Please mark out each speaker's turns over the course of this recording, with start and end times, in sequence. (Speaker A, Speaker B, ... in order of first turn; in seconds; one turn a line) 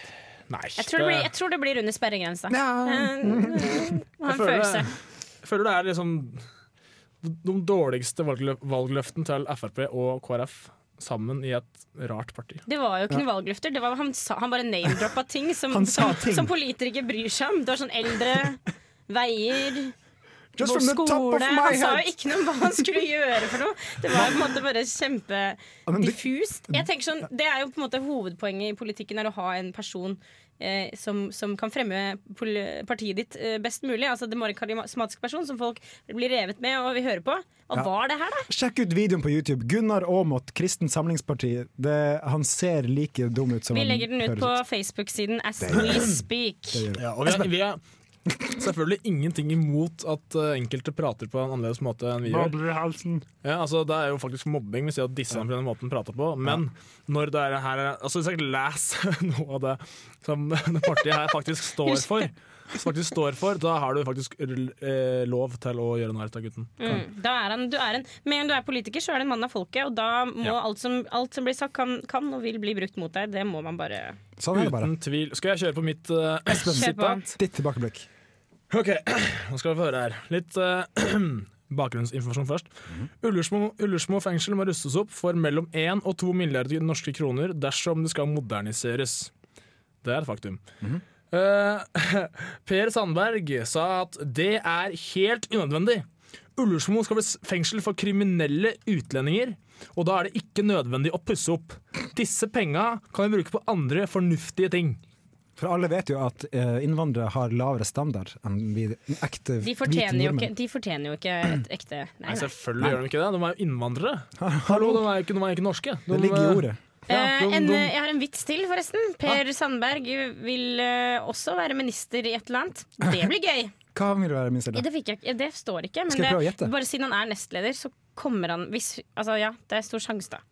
Speaker A: 0.5-1.3
Speaker B: 0.8-4.9
Speaker C: 2.5-3.9
Speaker A: 4.3-6.4
Speaker A: 7.2-12.6
Speaker B: 12.7-19.9
Speaker C: 15.7-16.5
Speaker C: 20.6-22.1
Speaker B: 20.6-38.5
Speaker C: 25.9-26.8
Speaker C: 38.5-44.6
Speaker B: 43.7-46.9
Speaker C: 45.6-46.0
Speaker C: 46.7-47.5
Speaker A: 47.0-47.8
Speaker A: 48.4-52.6
Speaker C: 52.3-53.2
Speaker A: 53.4-67.0
Speaker B: 66.8-74.2
Speaker C: 74.4-74.9
Speaker A: 74.5-77.2
Speaker C: 76.5-78.1
Speaker B: 76.7-77.3
Speaker A: 78.7-82.7
Speaker A: 83.2-89.3
Speaker A: 90.0-90.6
Speaker A: 91.3-96.1
Speaker A: 96.6-105.0
Speaker C: 105.6-110.5
Speaker B: 109.6-112.5
Speaker A: 112.3-117.9
Speaker C: 114.4-115.1
Speaker C: 116.1-116.8
Speaker B: 117.1-123.7
Speaker C: 123.0-123.3
Speaker C: 123.9-124.8
Speaker B: 124.7-130.4
Speaker C: 126.1-126.7